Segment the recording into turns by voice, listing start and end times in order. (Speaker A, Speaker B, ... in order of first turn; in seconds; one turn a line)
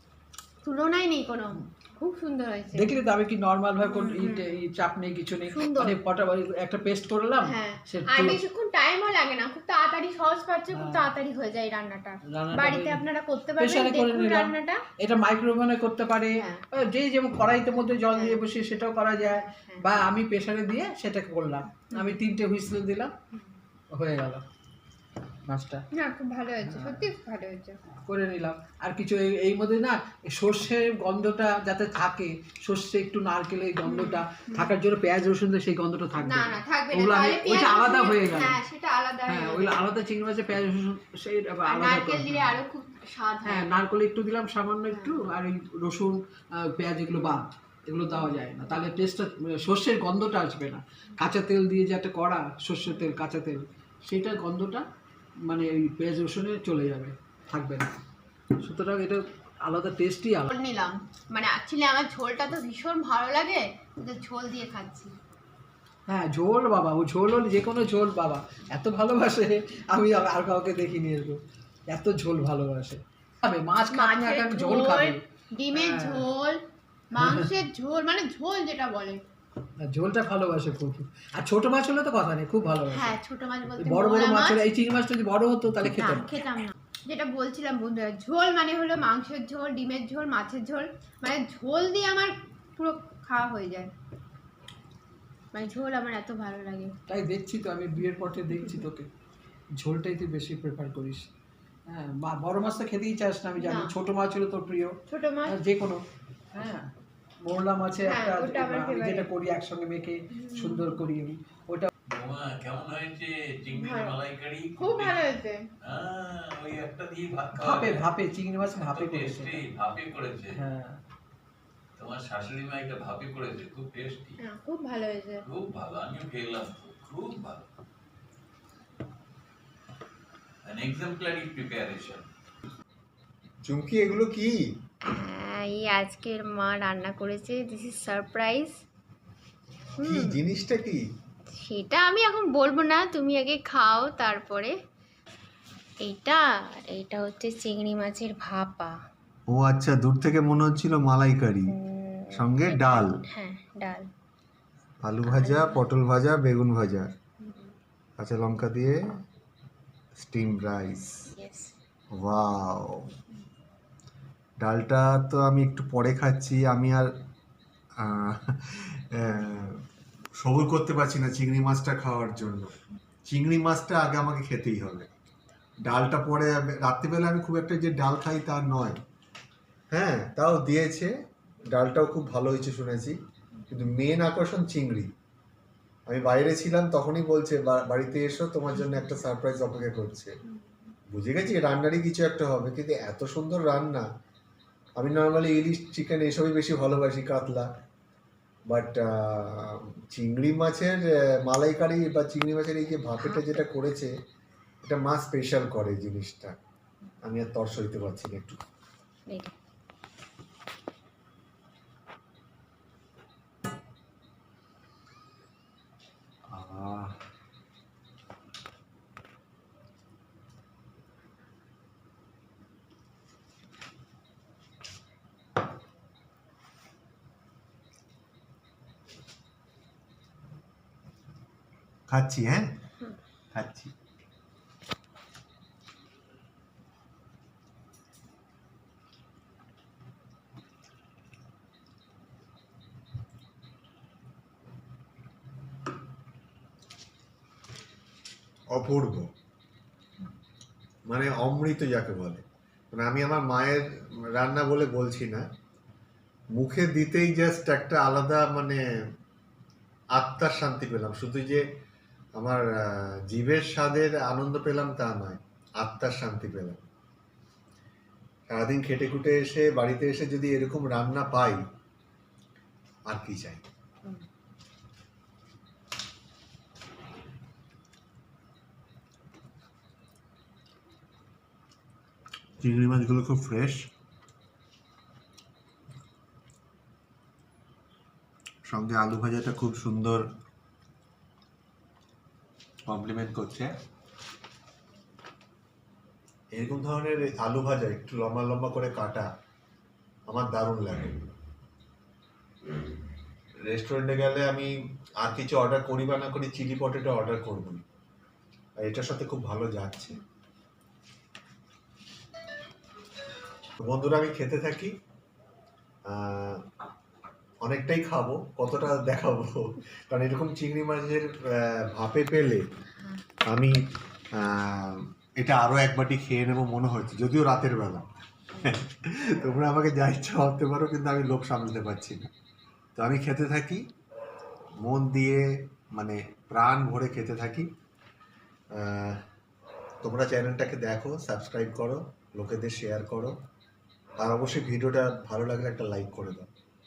Speaker A: 0.6-2.9
Speaker B: 2.7-8.4
Speaker A: 3.8-4.5
Speaker A: 5.5-6.0
Speaker A: 7.4-14.8
Speaker B: 10.7-11.1
Speaker B: 12.3-13.0
Speaker B: 13.6-23.1
Speaker A: 16.4-16.6
Speaker A: 18.1-18.4
Speaker A: 19.3-20.0
Speaker A: 21.9-22.2
Speaker B: 23.9-24.4
Speaker B: 25.5-25.8
Speaker A: 25.9-27.8
Speaker B: 26.6-27.0
Speaker B: 28.1-38.6
Speaker A: 33.8-34.7
Speaker A: 36.2-39.8
Speaker B: 39.3-42.5
Speaker A: 41.6-43.7
Speaker B: 43.4-54.8
Speaker A: 44.9-45.2
Speaker A: 52.9-53.1
Speaker B: 55.5-57.9
Speaker B: 58.6-60.5
Speaker A: 60.5-65.1
Speaker B: 66.1-75.2
Speaker A: 73.9-76.6
Speaker B: 75.7-76.2
Speaker A: 77.1-79.2
Speaker B: 77.2-77.5
Speaker B: 79.8-83.2
Speaker A: 82.9-84.7
Speaker B: 83.8-86.4
Speaker A: 85.8-93.9
Speaker A: 95.5-96.9
Speaker B: 97.1-99.1
Speaker A: 98.5-98.8
Speaker B: 99.8-101.2
Speaker B: 101.9-105.0
Speaker A: 103.6-103.9
Speaker A: 105.1-105.6
Speaker B: 105.5-106.9
Speaker B: 107.4-111.9
Speaker A: 108.0-109.3
Speaker A: 110.3-111.0
Speaker C: 112.1-118.1
Speaker A: 113.7-114.2
Speaker A: 114.8-115.7
Speaker B: 117.6-119.6
Speaker C: 118.6-120.6
Speaker B: 120.5-121.0
Speaker C: 122.0-124.4
Speaker A: 124.4-125.4
Speaker C: 125.4-127.6
Speaker C: 130.6-132.2
Speaker D: 133.6-134.6
Speaker A: 135.1-138.7
Speaker A: 140.0-140.4
Speaker D: 140.0-141.0
Speaker A: 141.5-144.7
Speaker A: 146.0-148.9
Speaker D: 149.5-151.7
Speaker A: 151.7-154.1
Speaker D: 152.3-153.2
Speaker D: 155.0-157.1
Speaker A: 155.2-155.8
Speaker A: 157.4-157.7
Speaker D: 158.2-159.0
Speaker D: 160.2-161.3
Speaker A: 161.3-161.7
Speaker D: 162.2-163.1
Speaker D: 164.6-167.1
Speaker D: 168.0-169.8
Speaker D: 170.4-172.7
Speaker D: 173.2-175.1
Speaker D: 175.8-179.0
Speaker D: 179.9-181.1
Speaker D: 181.7-183.2
Speaker D: 183.7-185.1
Speaker D: 186.1-190.3
Speaker D: 191.1-194.1
Speaker D: 195.0-197.7
Speaker D: 198.7-204.1
Speaker A: 203.2-203.6
Speaker D: 204.8-206.5
Speaker D: 207.2-208.6
Speaker A: 209.3-209.5
Speaker D: 216.5-217.2
Speaker D: 232.1-232.6
Speaker D: 233.5-233.9
Speaker D: 248.7-249.3
Speaker D: 251.1-255.4
Speaker D: 256.5-258.8
Speaker D: 260.1-261.6
Speaker D: 262.4-266.9
Speaker D: 268.5-271.6
Speaker D: 273.1-273.6
Speaker D: 282.6-283.9
Speaker D: 288.7-290.3
Speaker D: 292.9-293.7
Speaker D: 296.5-299.3
Speaker D: 300.3-301.2
Speaker D: 303.6-307.8
Speaker D: 308.8-310.2
Speaker D: 313.9-314.9
Speaker D: 316.1-316.6
Speaker D: 317.6-322.6
Speaker D: 323.5-328.1
Speaker D: 328.6-332.3
Speaker D: 332.9-333.8
Speaker D: 334.8-337.7
Speaker D: 338.7-339.2
Speaker D: 340.0-343.4
Speaker D: 344.2-346.5